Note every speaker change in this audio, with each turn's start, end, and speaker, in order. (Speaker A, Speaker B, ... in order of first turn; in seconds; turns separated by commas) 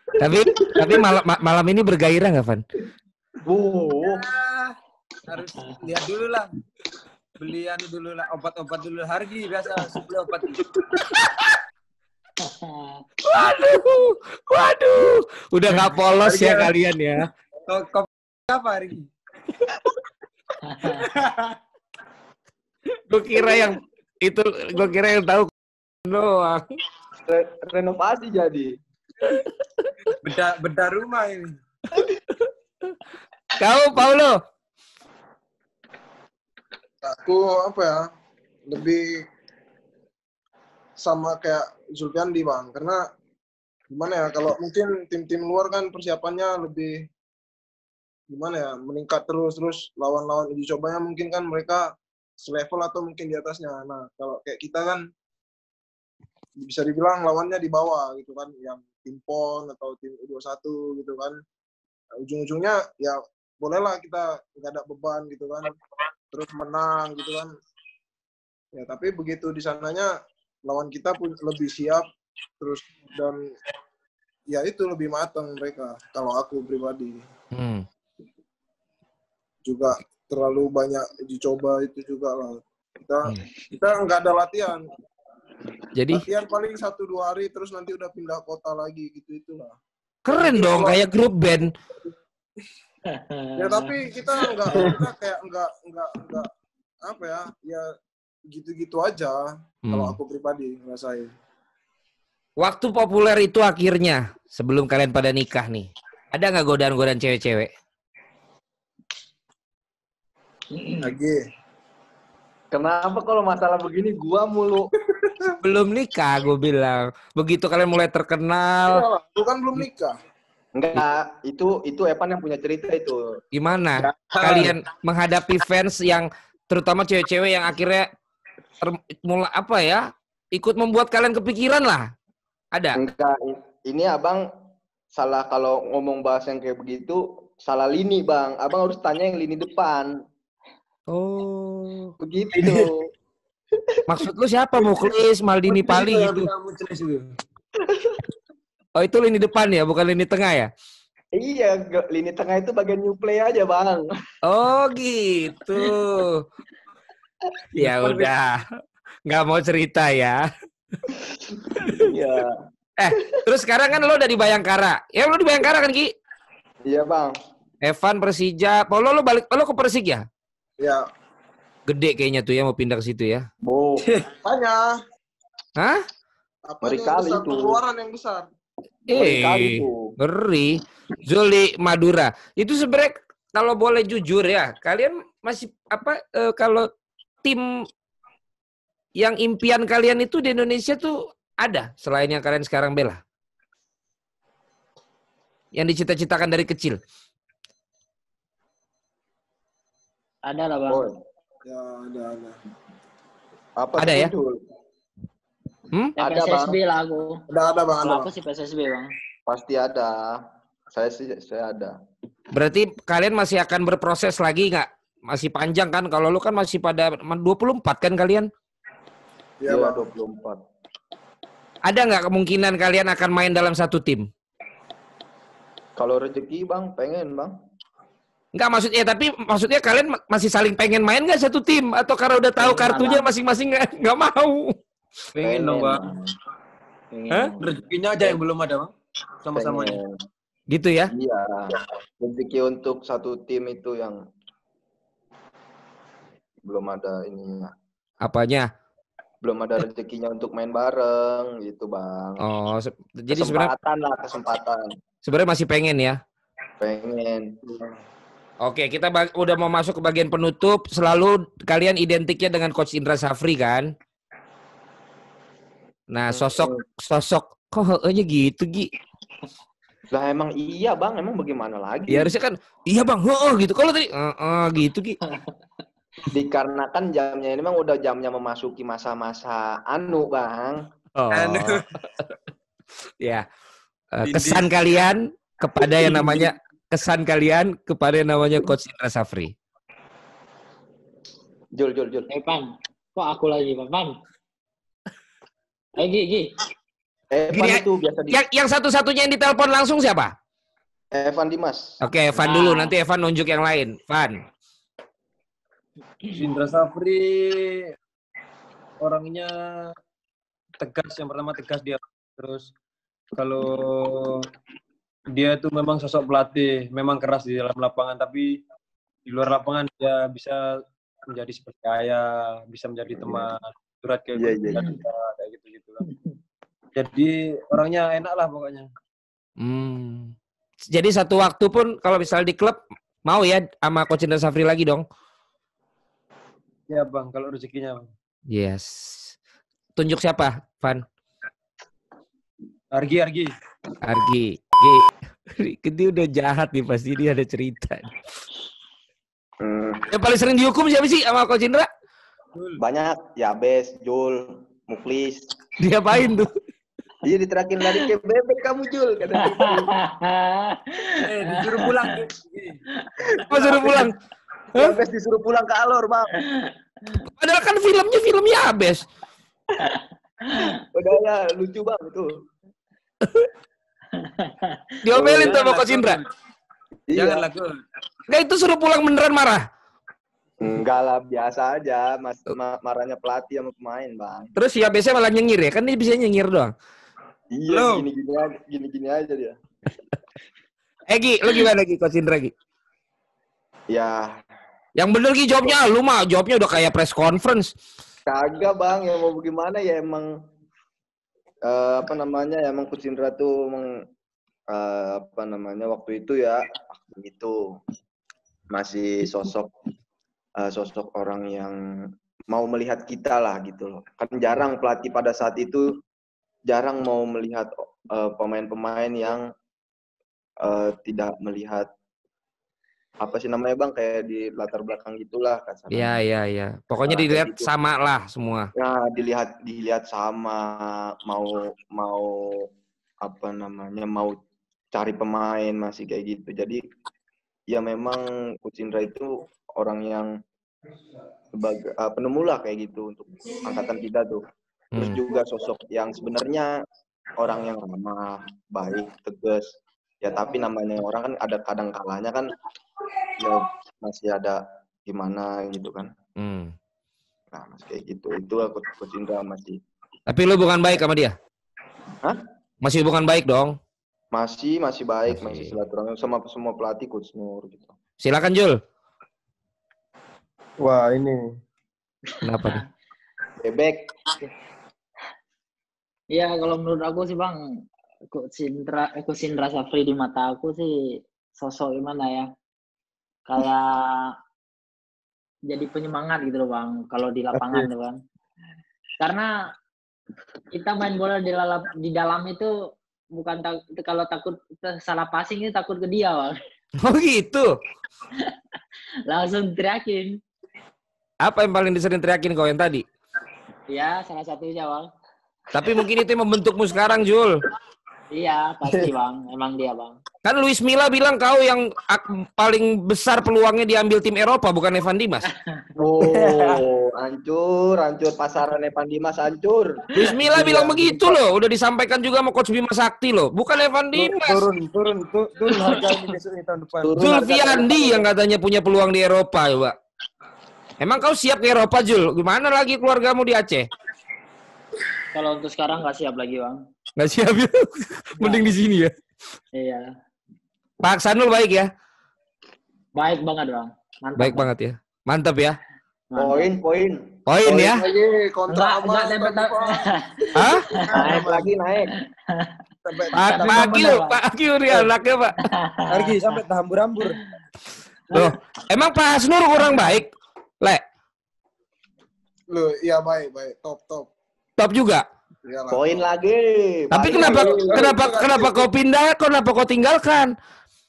Speaker A: 0.2-2.6, Speaker B: 0.7-0.9, Speaker B: 3.4-4.3, Speaker C: 4.1-4.7, Speaker C: 5.3-6.5, Speaker C: 7.4-10.6, Speaker A: 11.0-11.6, Speaker D: 12.4-13.0, Speaker A: 13.3-17.3, Speaker C: 16.2-16.7, Speaker C: 17.7-19.1, Speaker D: 20.6-21.0, Speaker C: 20.9-21.6, Speaker A: 23.1-25.5, Speaker A: 26.1-26.6, Speaker B: 27.2-28.7, Speaker A: 29.3-30.1, Speaker C: 30.2-31.5, Speaker A: 33.6-34.4, Speaker E: 37.0-38.0, Speaker E: 38.7-39.2, Speaker E: 41.0-43.0, Speaker E: 43.9-47.0, Speaker E: 48.3-55.0, Speaker E: 56.6-61.4, Speaker E: 62.2-65.8, Speaker E: 66.3-67.5, Speaker E: 68.7-70.1, Speaker E: 70.7-72.0, Speaker E: 72.6-73.4, Speaker E: 74.5-77.2, Speaker A: 77.5-77.8, Speaker E: 79.6-84.8, Speaker A: 85.9-86.2, Speaker E: 86.1-89.8, Speaker A: 90.2-91.7, Speaker E: 90.3-91.0, Speaker D: 93.1-93.9, Speaker E: 93.6-96.5, Speaker C: 94.7-95.0, Speaker E: 97.0-97.8, Speaker E: 98.5-101.3, Speaker A: 99.8-100.2, Speaker A: 102.6-107.7, Speaker D: 110.8-111.0, Speaker E: 111.0-111.4, Speaker B: 112.7-114.9, Speaker A: 115.6-119.1, Speaker E: 118.8-120.1, Speaker B: 120.8-123.4, Speaker A: 123.5-128.1, Speaker C: 124.1-124.7, Speaker A: 128.8-132.1, Speaker A: 132.7-133.0, Speaker B: 132.9-134.4, Speaker B: 135.1-140.1, Speaker A: 141.1-142.1, Speaker B: 142.2-143.1, Speaker C: 142.5-142.9, Speaker A: 144.1-146.5, Speaker C: 145.7-147.2, Speaker B: 147.8-148.2, Speaker A: 149.0-150.7, Speaker B: 151.3-154.0, Speaker A: 154.4-156.4, Speaker A: 157.8-158.6, Speaker C: 157.8-158.3, Speaker A: 159.3-160.4, Speaker B: 161.5-162.6, Speaker A: 163.0-166.1, Speaker B: 166.8-167.3, Speaker A: 167.8-170.2, Speaker E: 170.8-171.0, Speaker A: 171.9-173.4, Speaker B: 173.7-174.1, Speaker C: 174.0-174.3, Speaker E: 174.4-174.9, Speaker A: 175.8-176.0, Speaker E: 176.7-178.4, Speaker B: 176.8-177.8, Speaker A: 179.1-186.9, Speaker B: 179.1-180.1, Speaker A: 189.2-193.2, Speaker A: 195.7-197.0, Speaker D: 200.5-201.0, Speaker B: 200.9-201.2, Speaker E: 201.6-202.6, Speaker B: 203.8-204.6, Speaker A: 204.0-204.3, Speaker D: 206.2-207.4, Speaker B: 206.2-206.8, Speaker E: 207.5-208.3, Speaker D: 208.0-209.1, Speaker B: 209.5-210.4, Speaker B: 210.9-211.9, Speaker A: 212.5-218.5, Speaker E: 219.6-220.1, Speaker B: 219.7-220.6, Speaker A: 221.8-224.3, Speaker B: 226.0-227.5, Speaker A: 228.5-234.8, Speaker D: 232.6-233.3, Speaker C: 235.3-236.1, Speaker B: 235.4-236.3, Speaker D: 237.1-237.7, Speaker C: 237.6-238.9, Speaker C: 239.4-240.0, Speaker B: 239.5-240.2, Speaker A: 240.7-241.1, Speaker B: 241.1-244.2, Speaker B: 246.7-247.7, Speaker A: 248.2-248.7, Speaker B: 249.4-252.4, Speaker A: 252.4-253.7, Speaker B: 253.3-254.9, Speaker A: 255.2-256.2, Speaker B: 256.8-257.5, Speaker E: 257.6-258.0, Speaker A: 258.6-263.9, Speaker A: 266.1-268.9, Speaker B: 266.3-266.8, Speaker B: 270.1-272.3, Speaker A: 272.1-275.2, Speaker B: 276.3-280.8, Speaker A: 281.1-281.8, Speaker C: 281.3-281.9, Speaker A: 284.1-289.5, Speaker C: 284.2-284.7, Speaker C: 285.9-286.5, Speaker B: 291.7-292.3, Speaker D: 292.3-294.1, Speaker D: 296.0-296.5, Speaker B: 297.3-298.4, Speaker A: 297.5-300.3, Speaker B: 301.1-302.0, Speaker A: 302.0-304.4, Speaker D: 302.4-302.9, Speaker C: 306.3-307.9, Speaker C: 309.0-309.9, Speaker C: 310.8-312.7, Speaker C: 313.4-314.4, Speaker C: 315.3-318.6, Speaker C: 319.2-320.6, Speaker C: 321.3-326.0, Speaker B: 323.2-323.5, Speaker B: 324.4-324.8, Speaker C: 326.9-328.9, Speaker A: 329.6-330.3, Speaker A: 330.9-335.1, Speaker C: 336.9-338.1, Speaker A: 338.5-339.3, Speaker A: 340.0-341.0, Speaker C: 342.9-343.5, Speaker A: 344.0-348.1, Speaker B: 349.6-350.0, Speaker A: 350.1-351.9, Speaker B: 352.8-355.5, Speaker A: 355.8-356.5, Speaker B: 357.2-359.9, Speaker D: 359.9-362.1, Speaker C: 361.2-362.8, Speaker B: 363.4-364.1, Speaker A: 363.5-364.1, Speaker B: 364.7-366.3, Speaker A: 367.4-369.0, Speaker B: 370.9-372.3, Speaker D: 374.2-374.8, Speaker A: 375.0-376.2, Speaker B: 375.1-375.6, Speaker C: 375.4-376.3, Speaker B: 377.1-377.4, Speaker C: 377.1-377.8, Speaker A: 378.3-379.6, Speaker B: 380.6-384.5, Speaker A: 384.6-386.7, Speaker B: 387.5-389.6, Speaker C: 387.7-388.1, Speaker A: 391.1-392.5, Speaker B: 393.9-394.4, Speaker A: 395.0-397.7, Speaker B: 398.3-400.3, Speaker B: 401.6-403.9, Speaker B: 404.7-407.6, Speaker B: 408.7-409.7, Speaker B: 410.6-411.8, Speaker B: 412.5-415.9, Speaker B: 416.7-419.4, Speaker B: 420.6-421.9, Speaker B: 423.2-426.2, Speaker A: 425.9-428.7, Speaker B: 426.9-427.7, Speaker B: 428.8-432.7, Speaker B: 433.2-434.4, Speaker B: 434.9-436.8, Speaker B: 437.7-440.3, Speaker B: 441.5-444.4, Speaker A: 444.9-445.2, Speaker B: 444.9-446.8, Speaker B: 447.4-449.6, Speaker B: 450.2-452.5, Speaker B: 453.4-456.1, Speaker A: 456.4-456.7, Speaker B: 457.5-459.8, Speaker A: 460.3-461.3, Speaker A: 462.8-463.8, Speaker B: 464.3-467.9, Speaker A: 465.3-465.7, Speaker A: 468.2-468.8, Speaker C: 470.8-471.5, Speaker A: 472.4-472.8, Speaker B: 473.6-474.0, Speaker D: 476.3-477.6, Speaker D: 478.3-480.9, Speaker D: 481.6-482.5, Speaker D: 483.5-484.3, Speaker D: 485.7-488.2, Speaker C: 487.5-487.9, Speaker D: 489.2-489.5, Speaker D: 490.7-492.7, Speaker D: 493.3-496.6, Speaker A: 497.0-497.7, Speaker D: 499.3-500.4, Speaker A: 501.4-503.0, Speaker D: 503.9-505.1, Speaker A: 505.7-507.6, Speaker D: 508.3-510.2, Speaker A: 510.4-515.5, Speaker B: 516.0-521.4, Speaker C: 516.2-516.8, Speaker A: 520.1-524.6, Speaker C: 524.1-527.2, Speaker B: 527.0-528.3, Speaker A: 527.2-530.0, Speaker A: 531.0-533.9, Speaker D: 535.3-536.8, Speaker A: 537.2-539.1, Speaker D: 538.4-538.7, Speaker D: 539.8-540.1, Speaker A: 541.0-541.9, Speaker D: 543.1-544.6, Speaker A: 544.4-545.8, Speaker D: 546.3-546.7, Speaker B: 546.4-547.3, Speaker A: 547.5-548.0, Speaker E: 547.6-550.1, Speaker D: 548.7-551.4, Speaker A: 550.5-550.9, Speaker B: 551.1-552.1, Speaker E: 553.0-553.3, Speaker D: 553.3-554.4, Speaker A: 553.4-555.5, Speaker D: 555.6-556.4, Speaker C: 556.1-557.4, Speaker A: 558.3-560.3, Speaker E: 562.7-564.3, Speaker A: 564.8-565.2, Speaker E: 565.6-566.0, Speaker B: 565.9-568.1, Speaker A: 567.1-570.5, Speaker E: 567.3-568.9